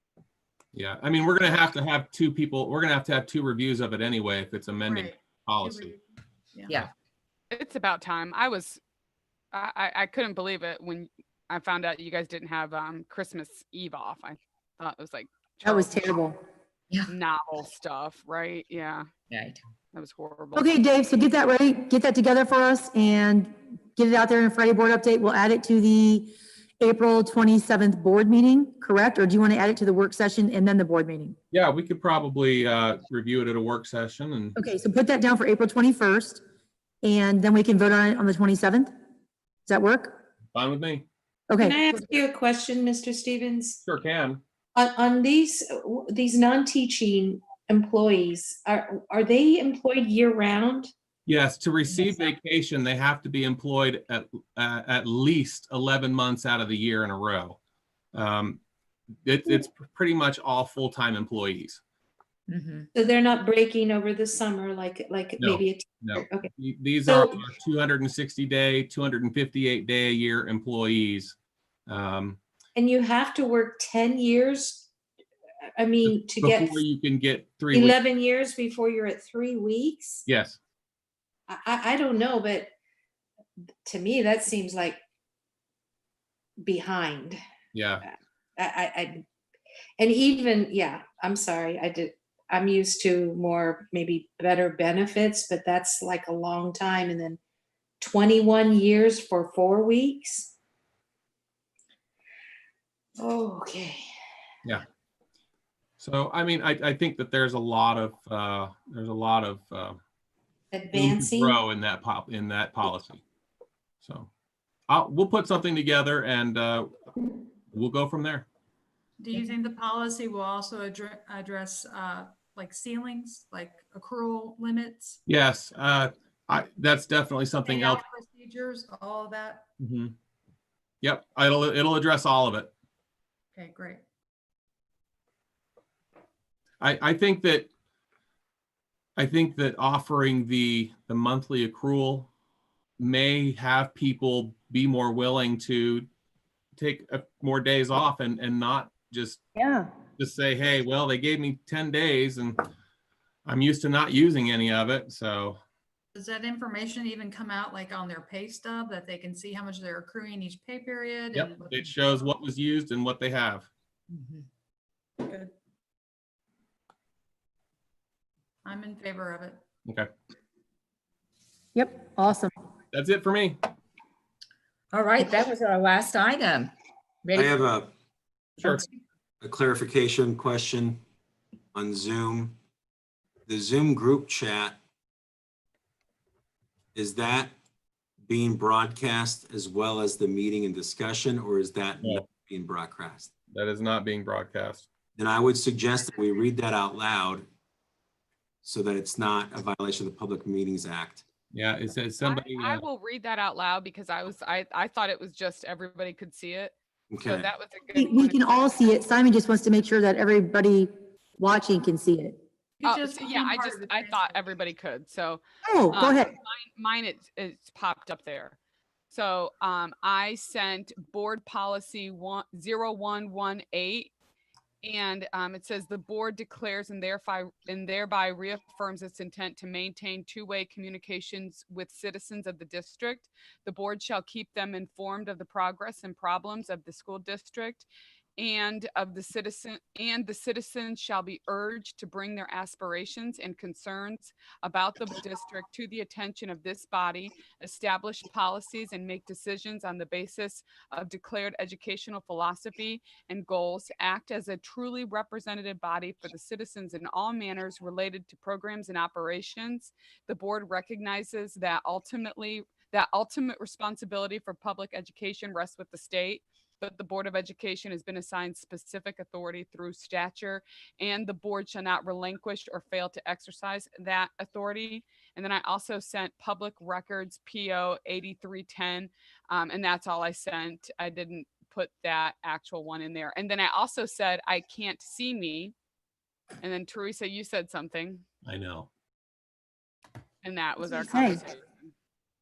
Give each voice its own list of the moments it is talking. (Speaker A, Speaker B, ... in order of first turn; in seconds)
Speaker A: 0.7-5.9, 31.5-34.5, 40.5-41.1, 43.9-44.4, 51.2-57.6, 58.1-58.6, 59.2-61.8, 65.4-72.4, 76.0-78.0, 80.2-80.6, 87.7-88.0, 106.0-110.0, 110.9-113.2, 114.0-114.3, 114.9-116.9, 117.7-118.5, 125.3-128.0, 129.8-130.1, 131.0-132.7, 136.8-137.7, 139.2-142.3, 143.0-146.1, 146.8-149.4, 150.2-152.6, 153.4-155.6, 161.3-163.7, 172.9-173.6, 178.6-178.8, 192.0-192.3, 193.5-194.9, 201.5-202.8, 288.4-288.9
Speaker B: 4.9-6.0, 119.2-125.2, 127.6-129.7, 133.5-134.0, 156.1-162.3, 168.6-169.6, 212.8-214.4
Speaker C: 7.5-8.8, 9.5-16.0, 17.1-19.1, 19.9-20.7, 202.2-208.7, 212.8-218.6, 219.1-224.1, 224.8-237.9, 238.4-285.7, 286.6-288.2, 290.4-291.9
Speaker D: 15.6-16.4, 20.5-31.4, 34.5-36.4, 37.0-38.9, 39.6-40.2, 41.5-42.0, 149.6-149.9, 171.7-172.5, 207.9-212.4, 215.6-216.3, 290.8-291.4
Speaker E: 19.3-19.6, 62.5-62.9, 174.9-176.7
Speaker F: 41.6-43.8, 44.7-50.9, 62.9-66.5, 67.0-67.4, 72.7-74.9, 75.8-76.8, 77.7-80.2, 81.5-82.7, 83.8-85.0, 86.6-87.4, 88.6-89.2, 90.0-97.4, 98.0-100.5, 103.2-104.0, 110.7-111.6
Speaker G: 177.3-177.9, 179.4-181.0, 181.7-182.6, 183.5-184.8, 186.9-187.5, 188.2-193.3, 195.2-197.5, 198.6-201.2, 207.1-207.5